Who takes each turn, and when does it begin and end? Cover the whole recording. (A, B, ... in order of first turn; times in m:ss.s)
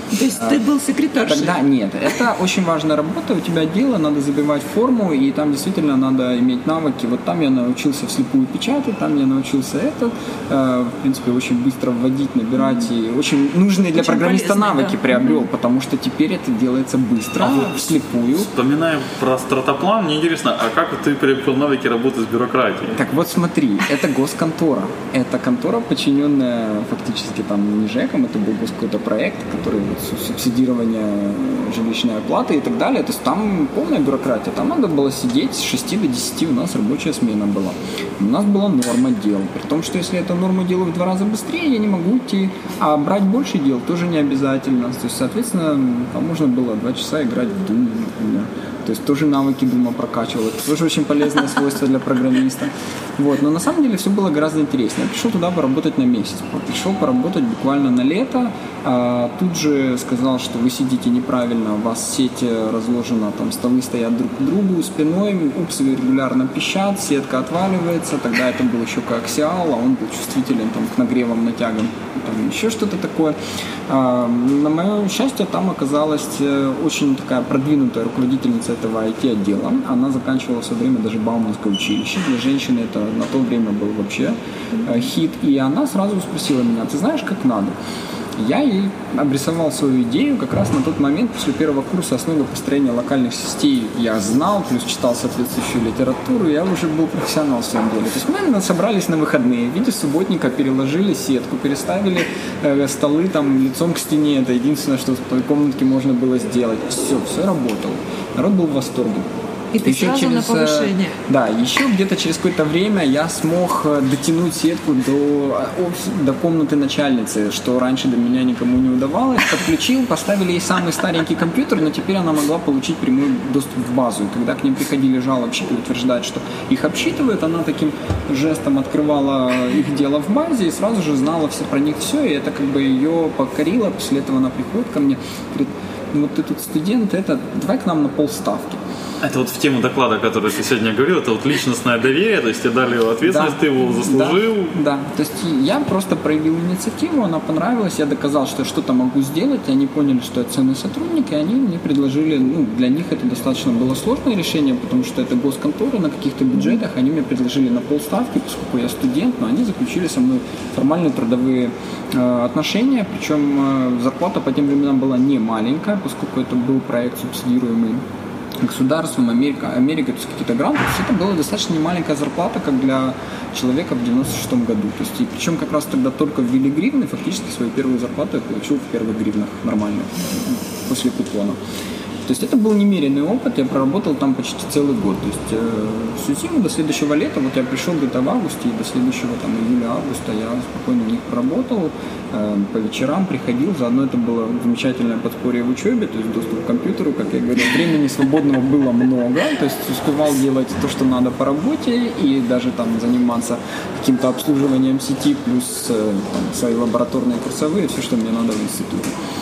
0:00.1-0:01.5 A
0:00.3-0:00.6 B
0:01.2-0:18.5 B
0:14.0-0:15.4 A
0:18.4-0:23.0 C
0:23.0-1:13.4 B
1:13.9-1:27.7 B
1:28.4-1:49.3 B
1:49.7-1:51.2 A
1:49.8-2:18.8 B
2:19.2-2:24.7 C
2:23.2-2:48.0 B
2:48.6-3:01.6 B
3:02.2-3:29.1 B